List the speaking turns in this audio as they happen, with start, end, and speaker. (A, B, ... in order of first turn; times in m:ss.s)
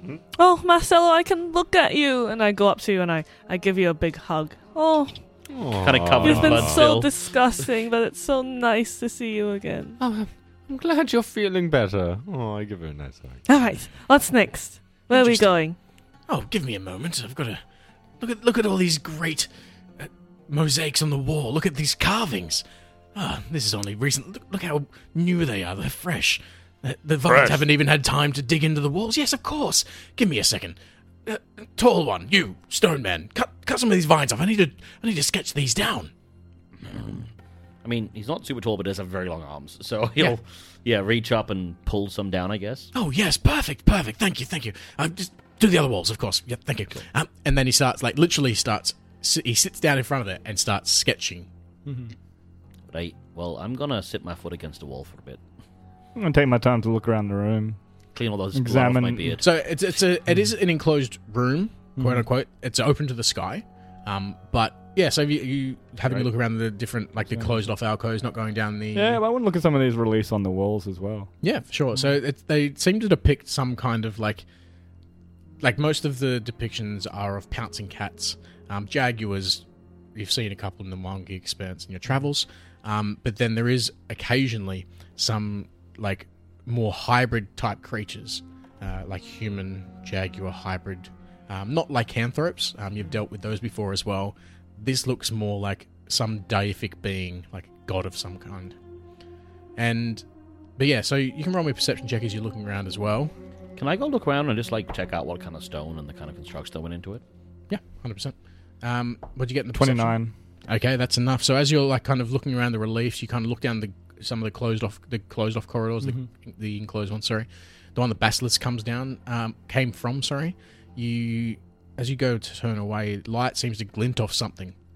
0:00.4-0:05.1 A
0:05.5-0:06.8 B
0:05.8-0:07.1 C
0:06.2-0:10.0 A
0:10.0-0:13.4 B
0:13.5-0:15.8 A
0:15.1-0:15.5 D
0:16.3-0:17.6 D
0:18.2-0:22.6 D
0:23.2-0:36.1 D
0:27.3-0:27.6 E
0:37.8-0:42.9 C
0:42.9-0:51.5 D
0:51.8-0:52.1 E
0:52.9-0:55.4 C
0:56.2-0:57.8 E
0:58.1-0:59.4 C
0:58.5-0:59.4 E
0:59.4-1:09.2 D
1:02.0-1:02.3 E
1:08.9-1:11.4 E
1:11.4-1:14.4 D
1:15.6-1:19.6 D
1:20.2-1:38.8 D
1:39.8-1:40.2 D
1:40.8-1:43.3 D
1:43.8-1:47.2 C
1:47.7-2:04.8 D
1:49.8-1:50.3 E
1:56.0-1:56.3 E